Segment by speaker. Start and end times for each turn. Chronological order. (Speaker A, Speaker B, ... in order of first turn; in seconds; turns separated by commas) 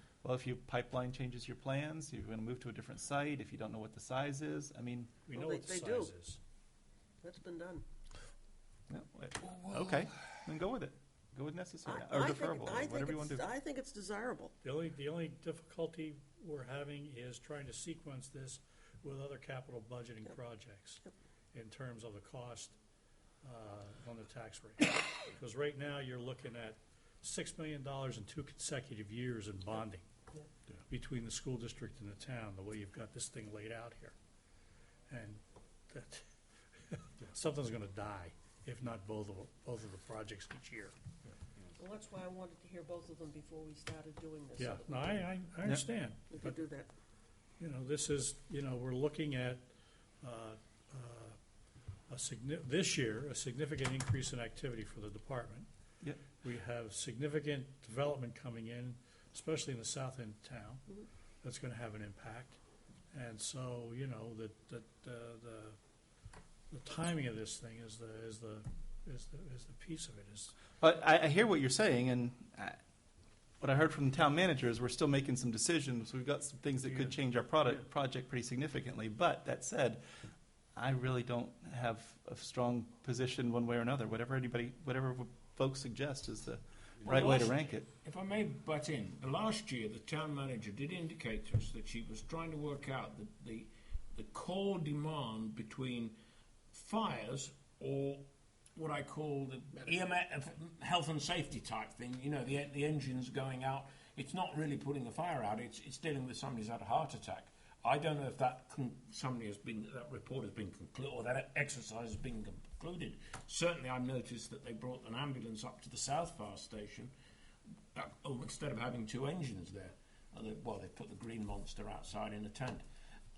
Speaker A: 0.2-5.2, Speaker B: 5.3-6.4, Speaker C: 5.3-6.1, Speaker C: 7.2-7.8, Speaker A: 8.9-13.4, Speaker C: 11.9-14.6, Speaker B: 14.6-21.0, Speaker B: 21.5-22.8, Speaker B: 23.4-30.0, Speaker B: 30.9-34.1, Speaker B: 35.1-36.2, Speaker B: 36.9-40.9, Speaker C: 41.8-45.3, Speaker B: 44.6-46.6, Speaker C: 46.3-46.9, Speaker B: 47.6-49.7, Speaker B: 50.2-51.4, Speaker B: 52.1-55.7, Speaker B: 56.4-60.9, Speaker B: 61.4-62.6, Speaker B: 63.1-65.8, Speaker B: 66.7-70.6, Speaker A: 70.8-72.8, Speaker A: 73.6-80.0, Speaker A: 80.8-87.9, Speaker D: 87.0-96.2, Speaker D: 96.7-117.1, Speaker D: 117.9-122.8